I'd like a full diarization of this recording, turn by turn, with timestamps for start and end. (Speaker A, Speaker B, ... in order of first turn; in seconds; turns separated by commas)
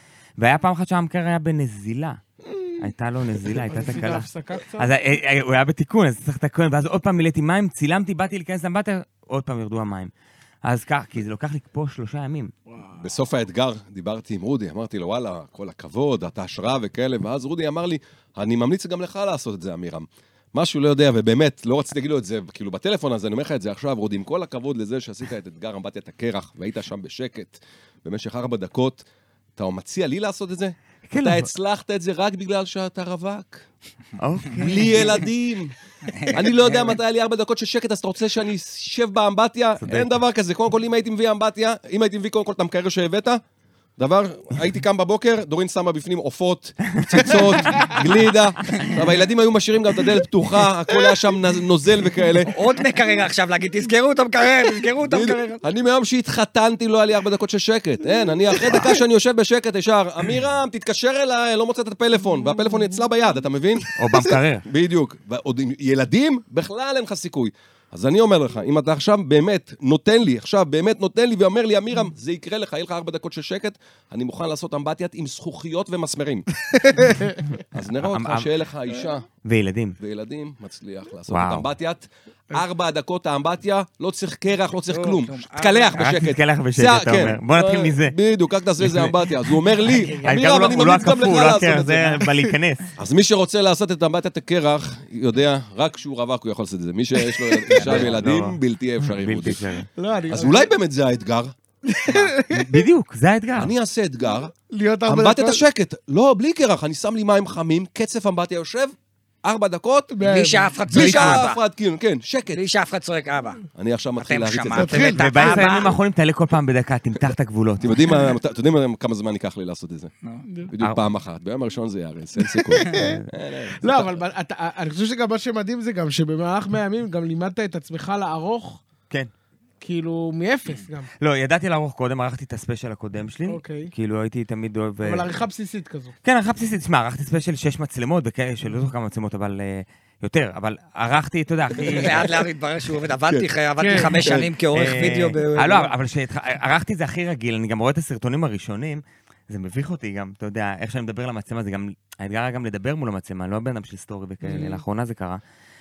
Speaker A: 0.4-2.2, Speaker B: 2.5-2.8, Speaker A: 2.8-10.1, Speaker B: 3.7-4.9, Speaker A: 10.6-12.5, Speaker B: 12.7-13.0, Speaker C: 13.0-33.6, Speaker A: 31.1-31.5, Speaker A: 34.2-35.2, Speaker C: 34.6-35.7, Speaker D: 36.2-36.8, Speaker C: 36.3-43.4, Speaker A: 39.8-40.1, Speaker C: 44.0-52.5, Speaker D: 52.5-55.6, Speaker C: 55.0-76.5, Speaker A: 64.0-64.7, Speaker B: 76.9-77.4, Speaker C: 77.7-79.3, Speaker A: 78.0-78.5, Speaker A: 79.4-80.0, Speaker C: 80.0-92.2, Speaker A: 81.3-81.7, Speaker D: 84.9-86.1, Speaker A: 86.0-88.2, Speaker A: 88.8-92.9, Speaker B: 89.9-90.4, Speaker C: 93.0-99.8, Speaker B: 97.5-97.8, Speaker A: 97.8-99.9, Speaker B: 100.0-100.7, Speaker C: 100.3-101.5, Speaker B: 101.9-102.8, Speaker A: 102.5-103.7, Speaker C: 103.6-104.5, Speaker B: 104.7-105.6, Speaker C: 105.1-110.1, Speaker B: 110.1-111.4, Speaker D: 110.2-111.6, Speaker C: 110.9-112.6, Speaker D: 112.5-113.7, Speaker C: 113.8-115.2, Speaker D: 114.2-116.0, Speaker B: 114.8-115.7, Speaker A: 115.2-117.9, Speaker C: 117.8-120.1, Speaker C: 120.7-124.2, Speaker B: 122.4-128.8, Speaker A: 123.0-123.3, Speaker B: 129.8-131.1, Speaker A: 131.2-135.3, Speaker B: 133.5-133.9, Speaker B: 135.0-136.1, Speaker A: 136.2-142.3, Speaker D: 141.8-145.9, Speaker C: 143.3-144.5, Speaker B: 143.8-144.1, Speaker A: 144.7-155.4, Speaker B: 154.4-154.8